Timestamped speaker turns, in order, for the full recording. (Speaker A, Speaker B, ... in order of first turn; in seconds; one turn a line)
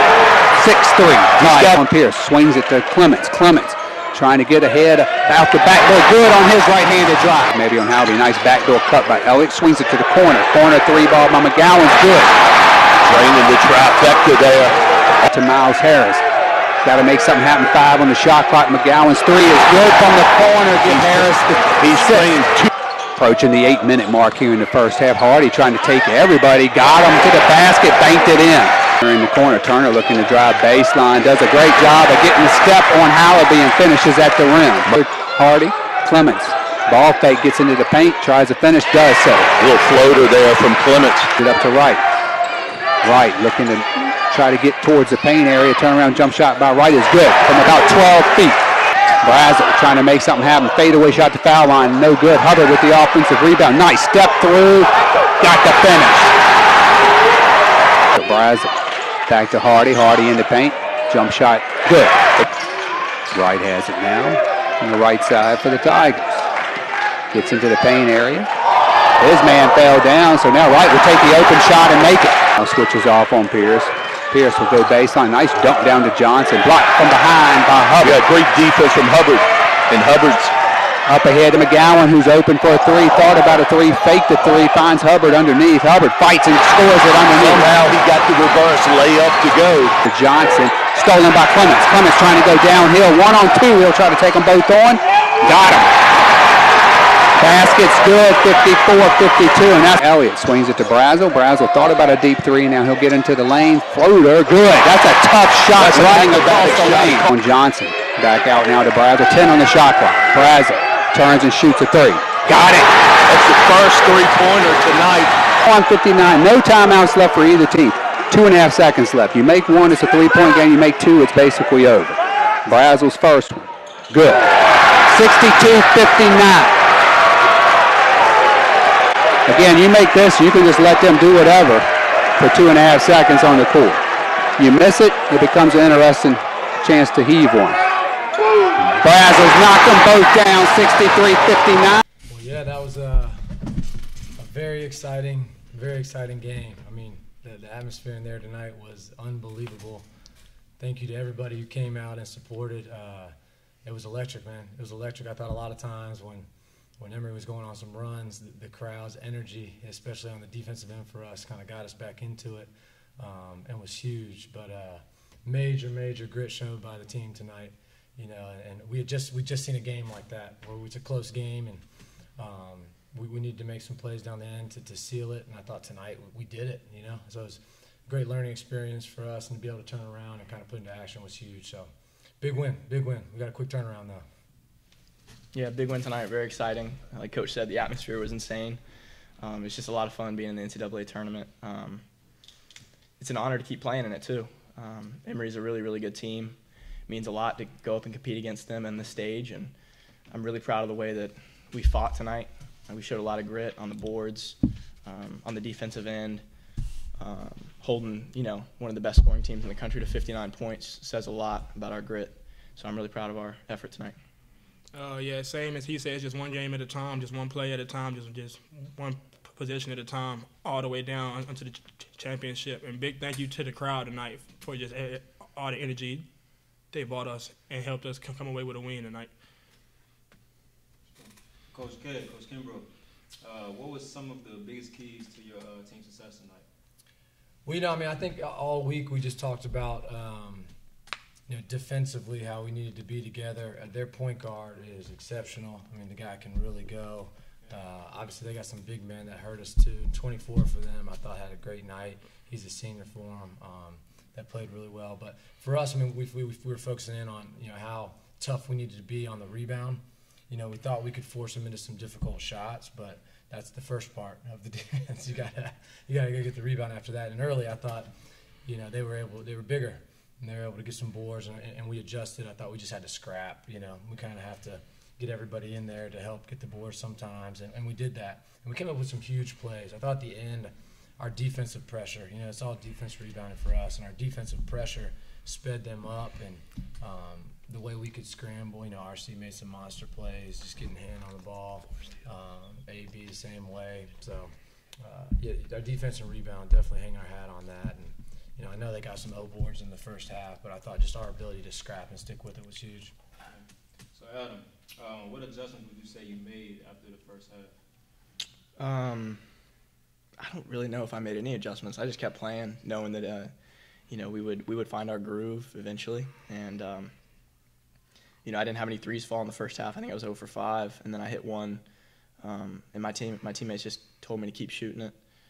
Speaker A: 0.6-12.3
Speaker B: 1.4-1.7
Speaker B: 13.0-14.8
Speaker A: 15.2-16.2
Speaker A: 16.8-22.3
Speaker B: 20.8-22.7
Speaker A: 23.1-39.5
Speaker B: 39.6-41.3
Speaker A: 41.4-42.0
Speaker A: 43.0-48.6
Speaker A: 49.2-56.3
Speaker A: 58.1-62.4
Speaker A: 63.3-66.5
Speaker A: 67.3-68.5
Speaker A: 69.2-78.2
Speaker B: 78.0-80.5
Speaker A: 81.0-87.7
Speaker B: 87.3-90.0
Speaker A: 90.0-95.9
Speaker A: 97.4-112.8
Speaker B: 105.7-107.3
Speaker B: 112.4-115.3
Speaker A: 115.6-124.4
Speaker A: 125.1-126.8
Speaker A: 129.5-131.8
Speaker A: 132.4-134.0
Speaker A: 134.6-137.8
Speaker A: 138.8-142.0
Speaker C: 142.3-143.4
Speaker C: 144.4-150.1
Speaker C: 150.8-153.3
Speaker C: 153.8-156.5
Speaker C: 157.0-171.8
Speaker C: 172.4-181.9
Speaker C: 182.4-184.2
Speaker D: 185.5-188.8
Speaker D: 189.4-192.0
Speaker D: 193.2-199.7
Speaker D: 200.3-206.4
Speaker D: 207.2-214.2
Speaker E: 214.9-226.2
Speaker E: 226.9-229.3
Speaker F: 231.2-232.9
Speaker F: 233.4-236.7
Speaker C: 237.6-240.7
Speaker C: 241.5-268.1
Speaker C: 268.6-303.1
Speaker F: 303.5-307.7
Speaker D: 308.8-309.4
Speaker D: 310.4-313.5
Speaker D: 314.1-317.1
Speaker D: 318.4-321.8
Speaker D: 322.4-325.1